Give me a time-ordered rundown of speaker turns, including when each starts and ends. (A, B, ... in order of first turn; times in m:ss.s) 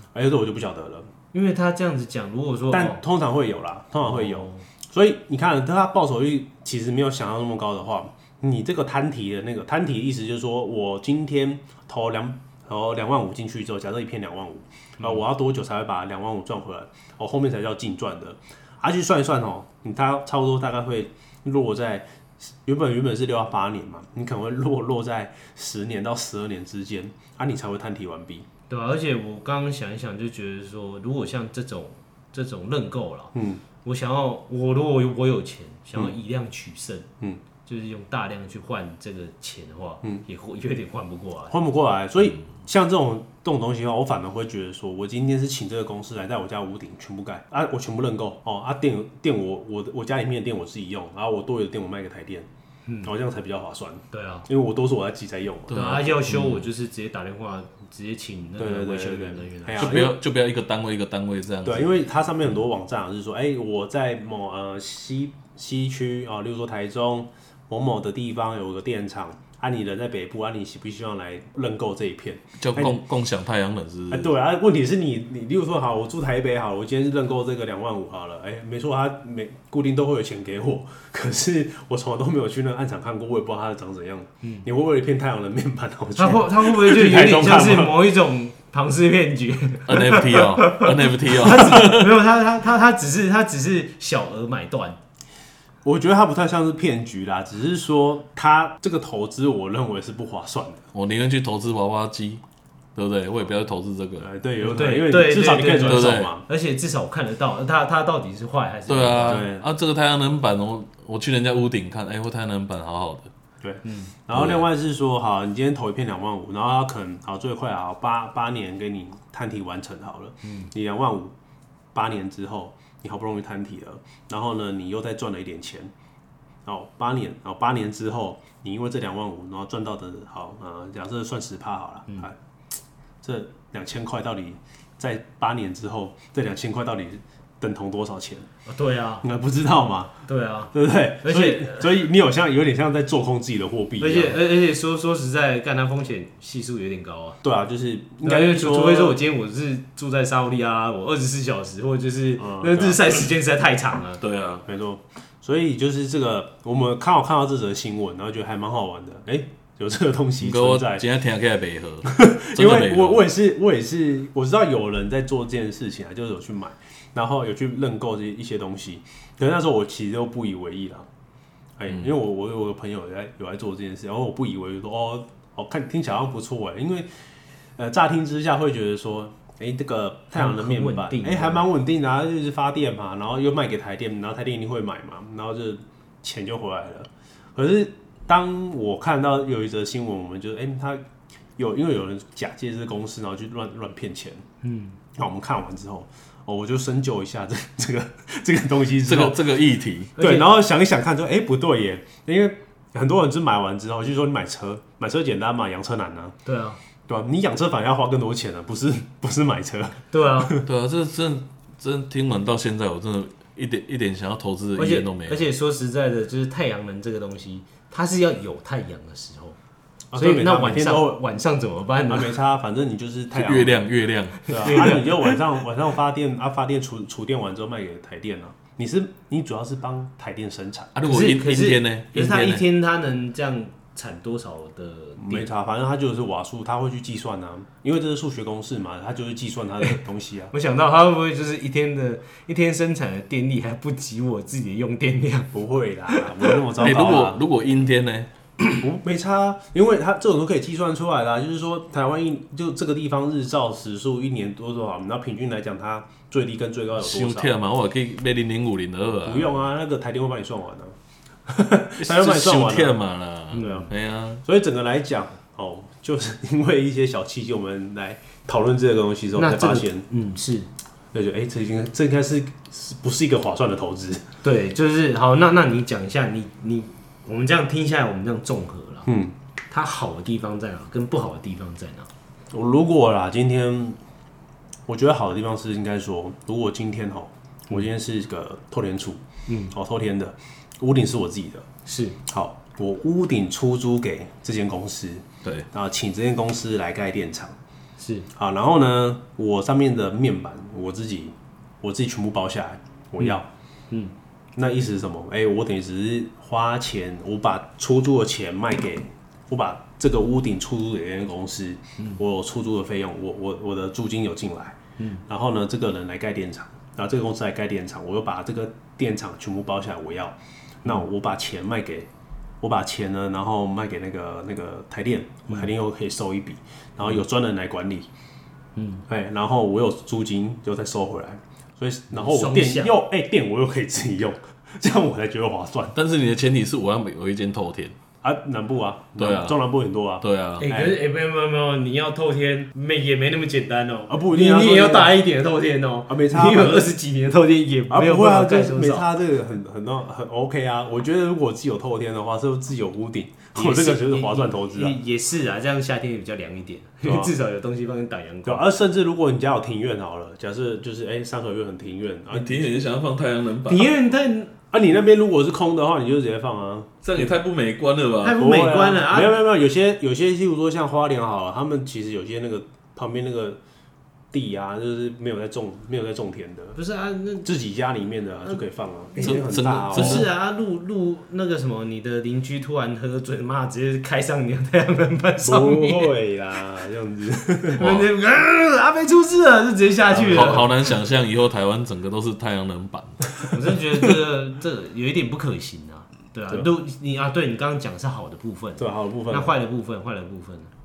0:00.1-0:01.1 A
0:01.3-0:03.0 B
0:02.7-0:28.4 A
0:04.0-0:04.6 B
0:28.7-0:37.1 B
0:33.3-0:33.6 A
0:37.6-0:41.5 B
0:41.5-0:52.5 A
0:53.0-0:56.2 A
0:54.1-0:54.5 B
0:55.7-0:56.6 C
0:55.7-1:00.0 B
0:58.6-1:00.2 A
0:59.8-1:01.9 C
1:01.6-1:13.0 A
1:12.6-1:14.3 C
1:14.1-1:28.0 A
1:26.2-1:35.0 B
1:29.8-1:32.2 C
1:35.8-1:40.8 A
1:40.9-1:42.4 C
1:42.9-1:44.3 C
1:44.2-1:46.4 A
1:44.6-1:49.5 B
1:45.8-1:46.3 C
1:48.9-1:53.3 C
1:49.3-1:49.7 A
1:53.6-2:01.3 A
1:53.8-1:54.1 B
1:54.3-1:54.6 C
2:00.4-2:00.7 B
2:01.9-2:05.9 A
2:06.6-2:12.4 A
2:13.2-2:18.5 A
2:18.6-2:19.2 B
2:19.2-2:20.1 A
2:20.2-2:22.0 B
2:20.7-2:24.4 A
2:24.0-2:27.4 B
2:27.4-2:29.2 A
2:28.2-2:34.2 B
2:32.4-2:33.2 A
2:34.2-2:34.6 C
2:34.6-2:41.1 A
2:40.4-2:43.2 C
2:42.0-2:51.1 A
2:51.8-2:57.1 A
2:57.8-3:11.0 A
3:00.3-3:01.7 B
3:11.6-3:14.4 A
3:14.6-3:15.0 B
3:15.1-3:19.5 A
3:19.0-3:20.1 C
3:20.2-3:20.6 B
3:20.2-3:26.4 A
3:26.4-3:26.8 B
3:27.1-3:30.6 A
3:30.1-3:30.5 B
3:30.6-3:35.4 C
3:34.8-3:39.6 B
3:40.1-3:41.2 A
3:40.1-3:42.4 B
3:42.1-3:43.8 A
3:43.3-3:45.0 C
3:44.4-3:50.9 A
3:44.5-3:45.1 B
3:50.9-3:52.6 C
3:51.0-3:55.5 B
3:55.2-4:00.5 A
4:00.5-4:05.5 B
4:05.5-4:07.4 A
4:06.8-4:08.3 C
4:08.8-4:17.6 A
4:17.0-4:19.5 C
4:19.2-4:20.9 A
4:21.5-4:23.0 A
4:22.0-4:24.4 C
4:23.5-4:23.9 B
4:23.5-4:23.9 A
4:24.4-4:30.0 A
4:29.4-4:30.7 B
4:31.1-4:34.3 A
4:34.4-4:39.1 B
4:39.0-4:39.3 A
4:39.7-4:42.1 B
4:42.5-4:44.0 A
4:44.9-4:51.6 A
4:49.5-4:49.7 B
4:51.8-4:52.2 B
4:52.3-4:57.5 A
4:58.0-4:58.3 B
4:58.3-5:03.4 A
5:04.6-5:22.1 A
5:22.6-5:28.1 A
5:28.8-5:29.0 B
5:29.1-5:36.0 A
5:32.1-5:33.0 B
5:35.9-5:37.9 C
5:38.2-5:41.0 A
5:39.2-5:39.6 C
5:40.2-5:40.6 C
5:40.6-5:49.1 B
5:44.1-5:45.2 A
5:46.1-5:46.8 A
5:47.9-5:54.9 A
5:53.5-5:58.6 B
5:57.0-5:57.3 A
5:58.4-6:02.7 A
6:02.3-6:04.0 C
6:03.6-6:04.5 B
6:04.7-6:06.9 A
6:07.0-6:08.4 C
6:08.2-6:09.4 B
6:08.4-6:13.6 A
6:14.3-6:16.8 A
6:16.8-6:17.5 B
6:17.4-6:20.3 A
6:19.1-6:26.1 B
6:19.2-6:20.3 C
6:25.4-6:28.0 A
6:27.8-6:30.7 B
6:30.1-6:30.7 A
6:30.3-6:33.2 C
6:33.5-6:40.7 B
6:38.8-6:39.5 A